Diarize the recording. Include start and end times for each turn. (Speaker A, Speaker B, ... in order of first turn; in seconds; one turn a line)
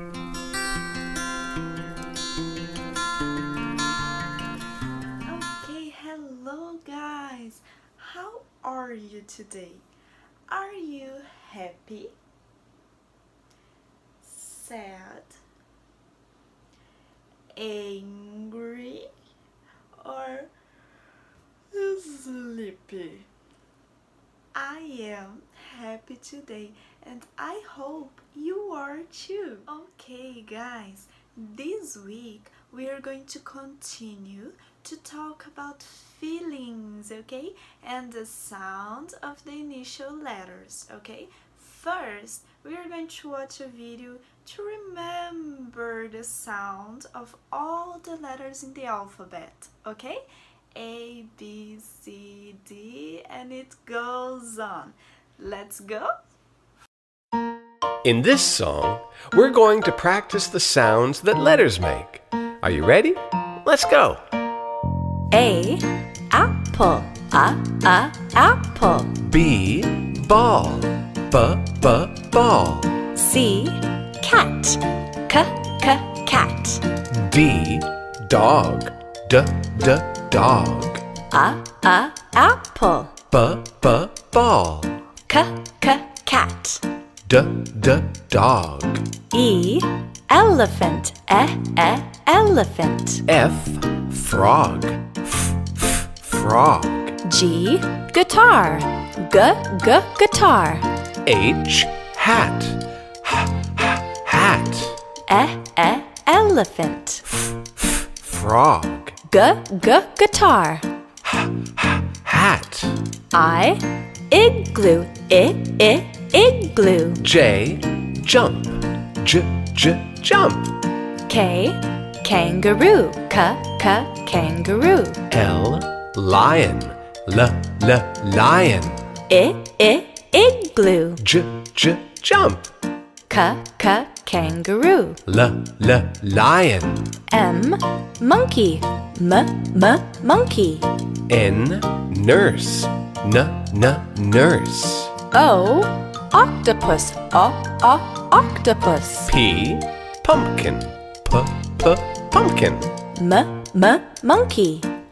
Speaker A: 5.2-9.8
Speaker A: 10.5-12.2
Speaker A: 14.2-15.4
Speaker A: 17.5-19.1
Speaker A: 20.0-20.5
Speaker A: 21.7-23.3
Speaker A: 24.5-50.2
Speaker A: 50.7-56.1
Speaker B: 58.0-64.2
Speaker C: 65.3-69.1
Speaker B: 69.2-73.0
Speaker C: 73.2-76.8
Speaker B: 77.1-81.0
Speaker C: 81.3-83.1
Speaker B: 83.3-84.9
Speaker C: 85.3-86.8
Speaker B: 87.3-89.0
Speaker C: 89.3-93.2
Speaker B: 93.3-97.2
Speaker C: 97.2-100.9
Speaker B: 101.2-105.0
Speaker C: 105.3-107.2
Speaker B: 107.3-109.2
Speaker C: 109.3-110.8
Speaker B: 111.2-113.0
Speaker C: 113.3-117.2
Speaker B: 117.2-120.7
Speaker C: 121.3-125.2
Speaker B: 125.3-129.1
Speaker C: 129.3-131.2
Speaker B: 131.2-132.7
Speaker C: 133.3-135.2
Speaker B: 135.2-137.2
Speaker C: 137.3-140.9
Speaker B: 141.3-145.1
Speaker C: 145.3-149.3
Speaker B: 149.3-152.9
Speaker C: 153.2-154.9